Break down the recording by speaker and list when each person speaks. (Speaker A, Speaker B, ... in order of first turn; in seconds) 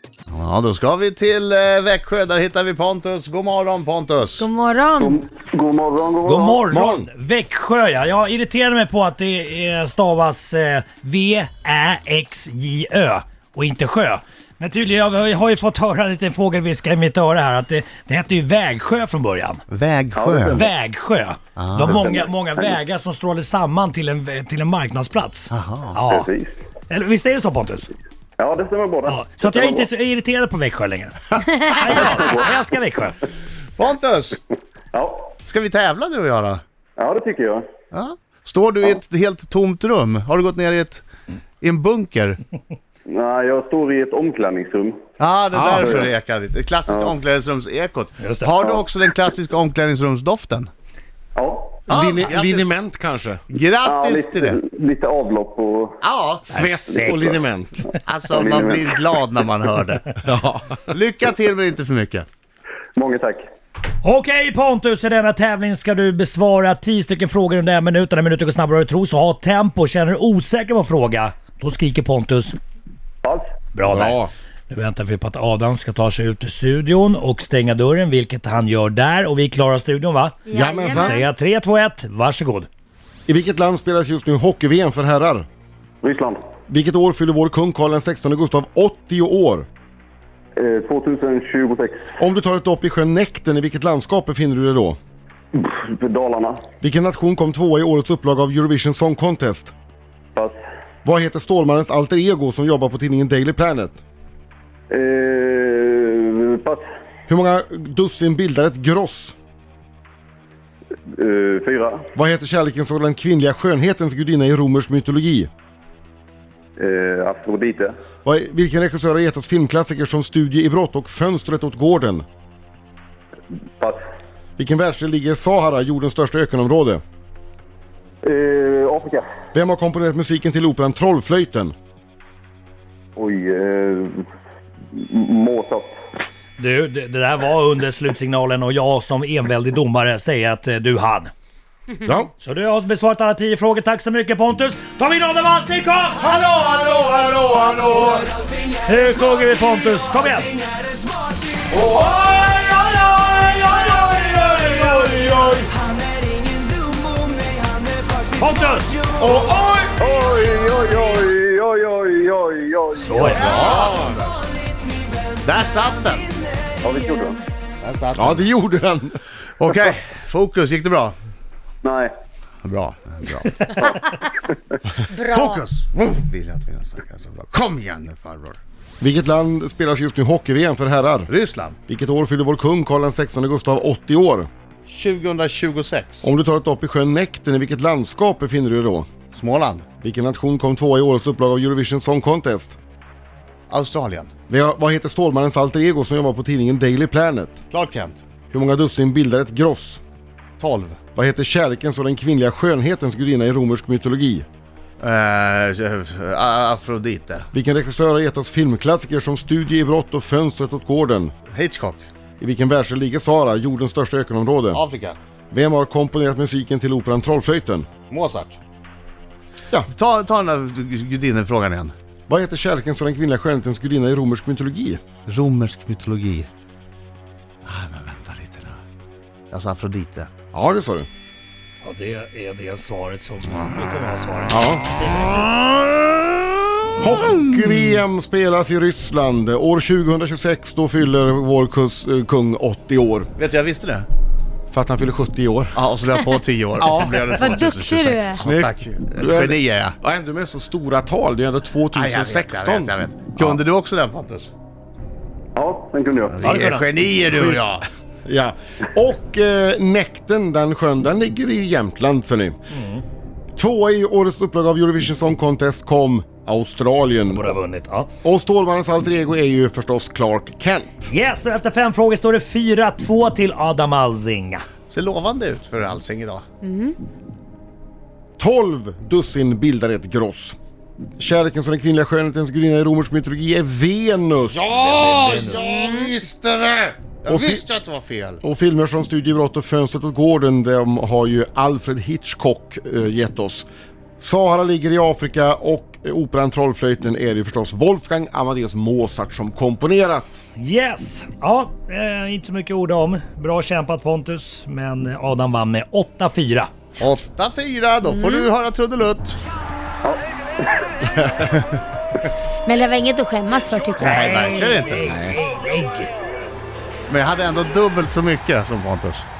Speaker A: 0.3-4.5, 19.7-20.6, 21.6-22.0, 25.5-26.1, 33.8-34.4, 35.4-36.6, 37.9-41.0, 41.6-42.4, 45.2-50.7, 51.9-52.7, 53.5-54.6, 56.0-56.7, 58.0-60.2, 60.9-62.2, 163.3-164.2, 165.4-166.4, 167.8-168.5, 169.6-171.2, 172.6-173.7, 175.2-178.6, 181.3-181.8, 184.8-186.3, 189.3-189.9, 193.7-194.3, 197.7-198.2, 200.6-201.0, 205.0-207.5, 211.5-212.1, 214.7-215.2, 218.1-218.6, 219.9-221.9, 225.3-226.5, 227.6-228.8, 229.5-230.3, 235.6-236.1, 243.4-244.1, 245.8-249.9, 251.9-254.5, 256.3-257.9, 274.9-276.5, 284.5-288.4, 307.0-309.4, 313.9-315.3, 317.1-319.2
Speaker B: 4.4-5.2, 80.5-81.2, 175.1-175.6, 247.3-248.4, 276.6-276.9, 308.1-308.4, 312.6-314.6
Speaker C: 5.0-6.6, 20.1-20.7, 21.9-22.8, 26.1-26.6, 28.4-29.9, 31.9-32.5, 34.9-35.3, 37.0-37.6, 43.1-45.0, 45.8-46.1, 46.9-47.1, 51.3-51.9, 53.8-56.0, 56.9-57.4, 58.3-58.9, 63.0-63.4, 86.0-86.4, 90.6-92.0, 95.5-96.6, 104.9-106.8, 111.1-112.0, 116.8-117.9, 128.2-129.2, 133.2-134.2, 134.9-135.9, 160.0-163.7, 166.8-167.4, 171.8-172.1, 173.8-174.1, 255.6-256.4
Speaker D: 6.2-19.6, 20.5-26.3, 26.9-27.9, 29.1-33.2, 48.2-48.6, 64.0-72.6, 73.7-82.7, 136.6-141.3, 142.4-146.3, 148.8-150.6, 152.1-155.1, 158.3-159.1, 162.9-163.6, 231.8-235.6, 256.4-256.9, 262.7-263.0, 267.2-268.1, 271.1-274.6, 284.8-285.8, 300.6-306.7, 314.0-316.1
Speaker E: 6.7-7.1, 45.5-46.0, 51.9-53.4, 56.5-57.9, 60.2-60.8, 73.8-74.3, 80.5-81.2, 83.3-85.5, 86.7-89.7, 92.2-95.0, 96.8-99.7, 101.0-104.0, 107.3-109.3, 112.1-115.5, 118.2-122.2, 124.6-127.0, 129.5-131.7, 142.0-142.3, 146.2-148.3, 151.7-152.9, 153.8-155.6, 159.2-159.9, 163.4-164.2, 168.1-169.2, 179.0-181.3, 181.9-184.5, 186.2-189.1, 190.0-192.8, 194.5-197.6, 198.5-200.0, 201.1-204.4, 207.5-211.3, 212.4-214.8, 215.5-217.9, 222.3-225.0, 230.5-231.1, 234.5-234.8, 237.0-243.3, 244.7-245.8, 246.8-247.5, 248.3-253.6, 257.3-257.6, 258.2-262.6, 263.6-267.5, 268.2-271.1, 278.4-280.6, 281.2-284.7, 287.3-287.6, 288.4-293.7, 294.2-300.4, 315.1-315.3